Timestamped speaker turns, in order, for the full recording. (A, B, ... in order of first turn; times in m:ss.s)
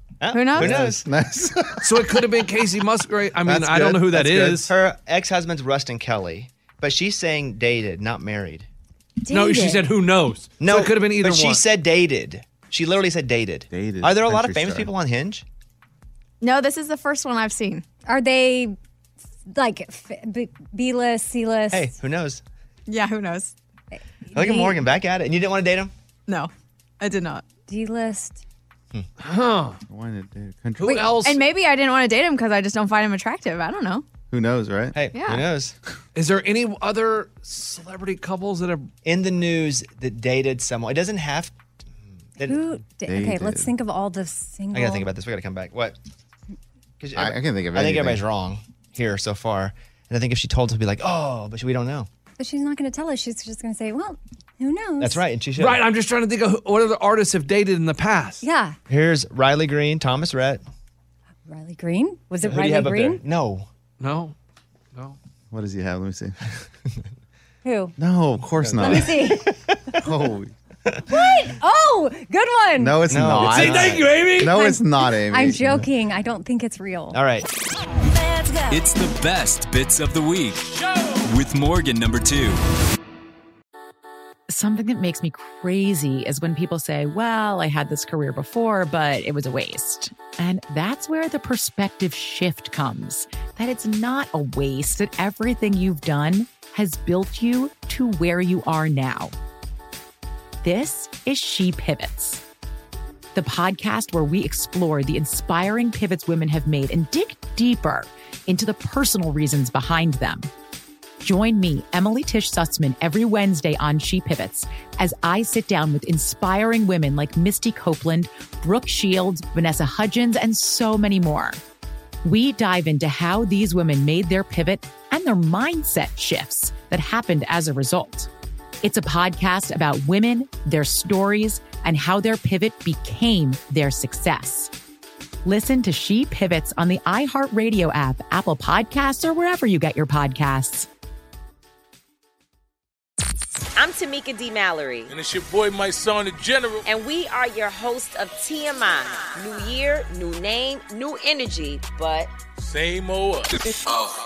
0:00.2-0:01.0 A
0:00.3-0:00.7 B
0:00.6-0:02.2 C
0:01.8-0:04.7 D
0:03.4-0:04.6 C
0:04.5-0:08.7 A
0:09.3-0:09.9 E
0:09.3-0:11.6 D
0:10.6-0:15.4 A
0:13.7-0:14.9 C
0:16.4-0:17.8 B
0:18.1-0:18.8 E
0:19.5-0:22.0 E
0:21.7-0:22.4 A
0:22.9-0:23.5 B
0:23.9-0:24.4 E
0:24.3-0:25.9 A
0:26.3-0:27.4 B
0:27.7-0:28.4 E
0:29.2-0:29.8 D
0:29.9-0:31.2 C
0:30.8-0:31.4 D
0:31.2-0:34.0 B
0:34.3-0:35.0 C
0:34.9-0:35.8 A
0:35.1-0:35.5 B
0:36.2-0:38.9 D
0:39.0-0:41.5 A
0:42.4-0:45.1 E
0:43.0-0:43.7 C
0:44.7-0:46.0 A
0:47.0-0:52.1 A
0:47.2-0:48.2 C
0:52.4-0:55.2 E
0:55.0-0:55.8 A
0:55.6-0:58.4 D
0:58.4-0:58.8 E
0:58.9-1:00.6 A
1:01.5-1:03.2 E
1:02.4-1:03.7 A
1:04.0-1:04.4 D
1:05.5-1:06.4 C
1:07.6-1:07.9 E
1:08.0-1:09.4 C
1:08.6-1:09.2 A
1:08.8-1:09.5 E
1:10.0-1:10.5 C
1:11.1-1:13.1 E
1:12.8-1:15.9 C
1:13.1-1:14.0 A
1:13.4-1:14.6 D
1:14.4-1:17.2 E
1:17.1-1:17.5 A
1:18.7-1:22.6 F
1:24.5-1:39.3 G
1:40.6-1:42.4 G
1:43.3-1:50.5 G
1:51.2-2:01.6 G
2:02.2-2:08.3 G
2:08.8-2:14.7 G
2:15.4-2:20.9 G
2:23.8-2:25.1 H
2:25.1-2:26.9 I
2:26.9-2:32.3 H
2:32.6-2:33.6 I